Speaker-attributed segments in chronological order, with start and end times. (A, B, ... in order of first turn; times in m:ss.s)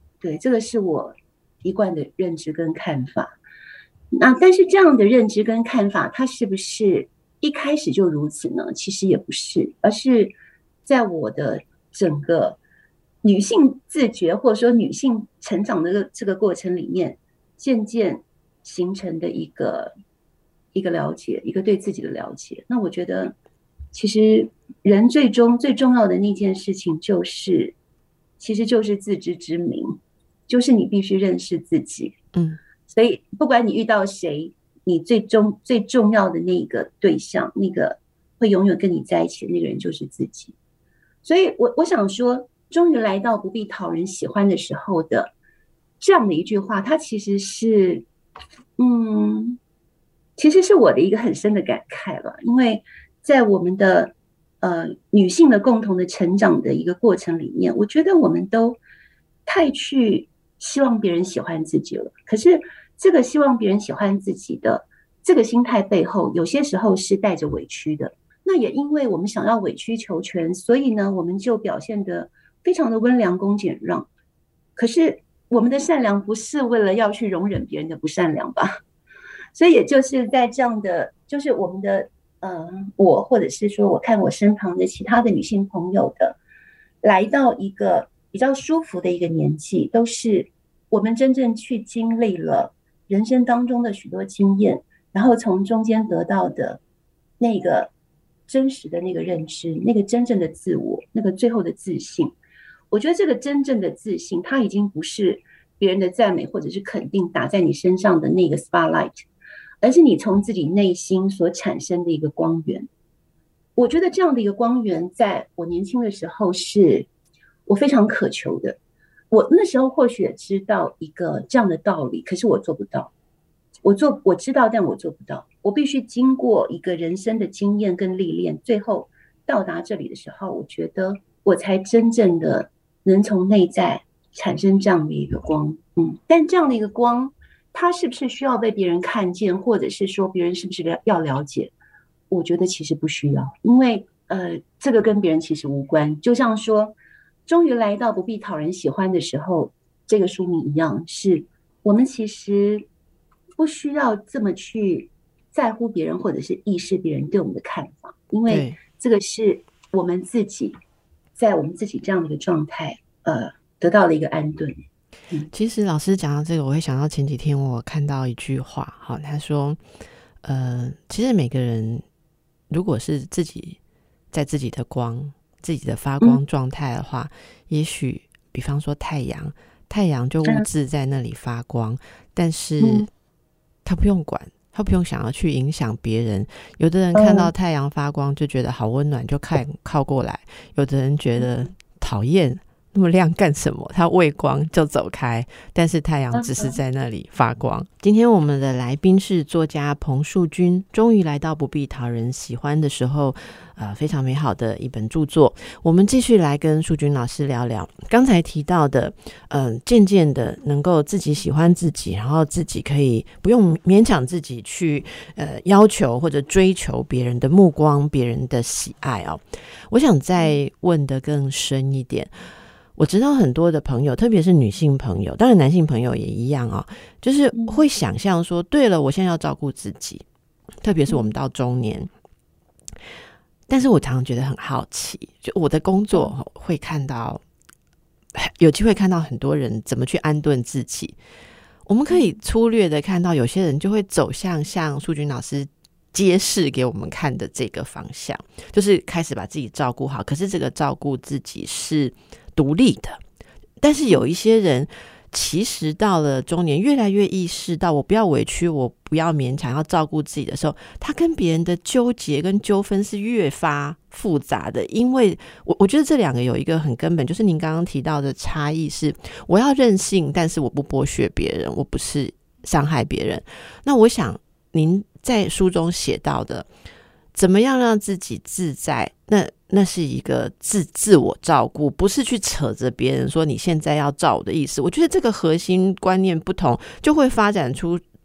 0:00.2-0:03.4 A
0:04.1-0:10.3 A
0:10.8-0:12.6 A
0:13.2-0:19.9 A
0:20.7-0:23.3 A
0:23.9-0:27.7 A
0:28.4-0:30.0 A
0:30.5-0:32.2 A
0:32.3-0:32.6 B
0:32.9-0:40.5 A
0:41.2-0:45.3 A
0:46.0-0:48.0 A
0:48.8-0:49.6 A
0:50.4-0:58.8 A
0:59.4-1:14.1 A
1:14.8-1:18.7 A
1:19.5-1:26.4 A
1:27.0-1:36.8 A
1:37.4-1:37.9 A
1:38.5-1:42.3 A
1:42.9-1:49.2 A
1:49.8-1:52.9 A
1:53.8-1:57.1 A
1:57.7-1:58.8 A
1:59.3-2:03.1 A
2:03.8-2:21.7 A
2:22.3-2:26.9 A
2:27.5-2:32.8 A
2:33.6-2:40.8 A
2:38.5-2:38.8 B
2:41.4-2:44.8 A
2:45.5-2:49.8 B
2:50.4-2:52.0 B
2:52.7-2:53.8 B
2:54.3-3:03.1 B
3:02.8-3:03.1 A
3:03.8-3:42.3 B
3:07.1-3:07.5 A
3:16.3-3:16.7 A
3:43.0-3:50.2 B
3:47.5-3:47.8 A
3:50.8-3:52.1 B
3:53.7-3:57.4 B
3:58.3-4:01.1 B
4:01.8-4:13.2 B
4:13.8-4:36.7 B
4:37.3-4:48.0 B